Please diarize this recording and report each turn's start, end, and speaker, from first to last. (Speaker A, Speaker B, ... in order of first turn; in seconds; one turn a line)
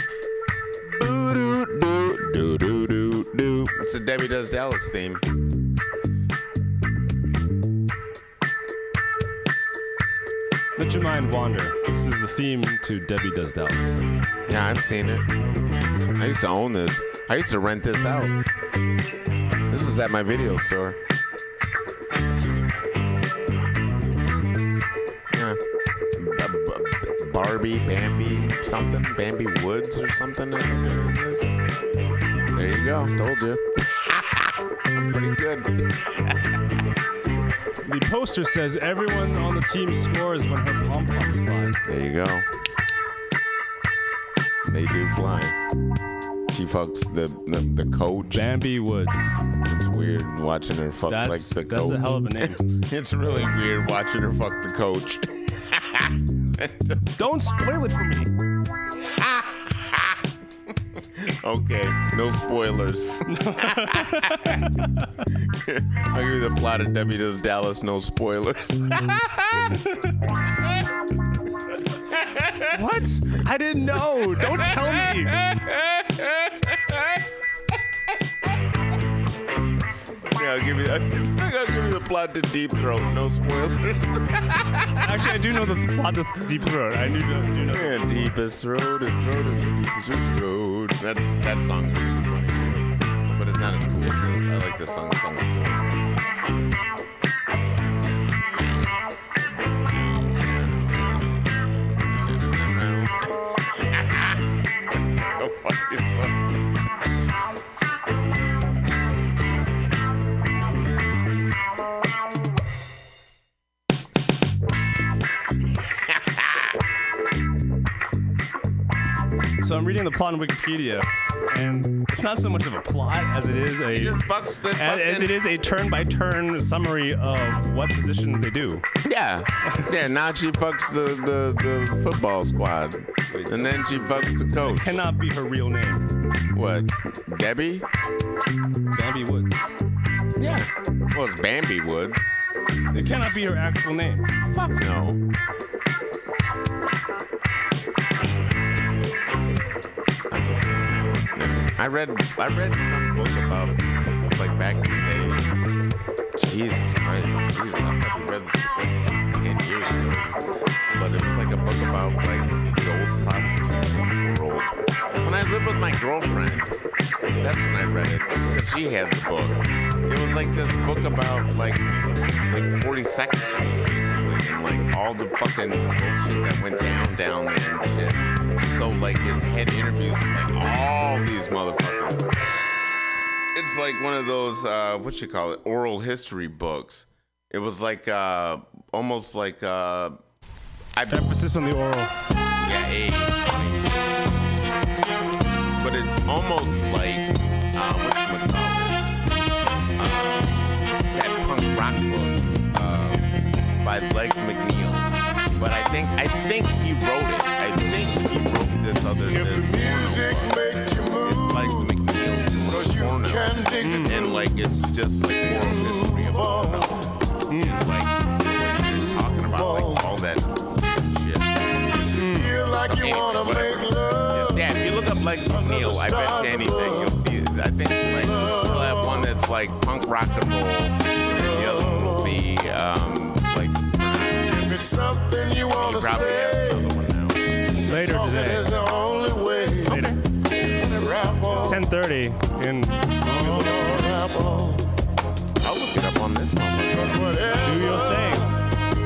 Speaker A: 0.8-5.2
Speaker B: 10.8-14.0
Speaker A: 14.5-15.3
Speaker A: 16.1-18.4
Speaker A: 19.7-21.0
Speaker A: 25.3-25.6
Speaker A: 26.1-31.5
Speaker A: 32.5-36.4
Speaker B: 37.9-41.8
Speaker A: 41.9-42.5
Speaker A: 44.7-45.6
Speaker A: 46.5-48.5
Speaker B: 48.3-49.3
Speaker A: 49.6-57.0
Speaker B: 51.1-52.6
Speaker B: 57.1-58.3
Speaker A: 59.0-60.2
Speaker A: 61.2-64.5
Speaker B: 63.3-65.3
Speaker A: 65.4-69.8
Speaker A: 72.2-72.7
Speaker B: 72.7-75.4
Speaker A: 74.5-77.2
Speaker A: 80.3-85.2
Speaker B: 85.0-88.1
Speaker A: 87.7-95.8
Speaker A: 97.8-99.0
Speaker A: 99.8-104.5
Speaker A: 105.2-106.5
Speaker A: 116.1-116.7
Speaker B: 119.6-128.9
Speaker A: 123.9-125.4
Speaker A: 129.0-134.9
Speaker B: 133.3-136.1
Speaker A: 136.5-137.8
Speaker B: 138.9-139.7
Speaker A: 140.4-142.2
Speaker B: 142.9-144.3
Speaker A: 144.5-145.2
Speaker A: 150.3-155.4
Speaker A: 156.4-166.8
Speaker A: 167.4-171.9
Speaker A: 172.4-182.4
Speaker A: 183.6-190.2
Speaker A: 191.0-191.4
Speaker B: 191.1-192.2
Speaker A: 192.6-194.1
Speaker A: 195.8-199.1
Speaker A: 200.0-217.0
Speaker C: 209.2-212.0
Speaker C: 212.7-214.6
Speaker B: 213.8-214.2
Speaker C: 215.4-217.0
Speaker B: 217.5-217.8
Speaker A: 217.5-221.7
Speaker C: 219.1-220.1
Speaker B: 222.2-222.5
Speaker C: 222.2-224.8
Speaker A: 223.0-234.5
Speaker C: 225.4-227.2
Speaker C: 228.2-229.3
Speaker C: 231.3-232.5
Speaker C: 234.5-237.0
Speaker A: 235.8-237.4
Speaker C: 237.8-240.1
Speaker B: 237.9-238.7
Speaker B: 239.8-240.2
Speaker A: 239.8-241.8
Speaker C: 240.8-241.8
Speaker B: 241.6-244.1
Speaker C: 243.2-244.9
Speaker A: 245.6-247.4
Speaker C: 246.9-248.5
Speaker B: 247.6-248.5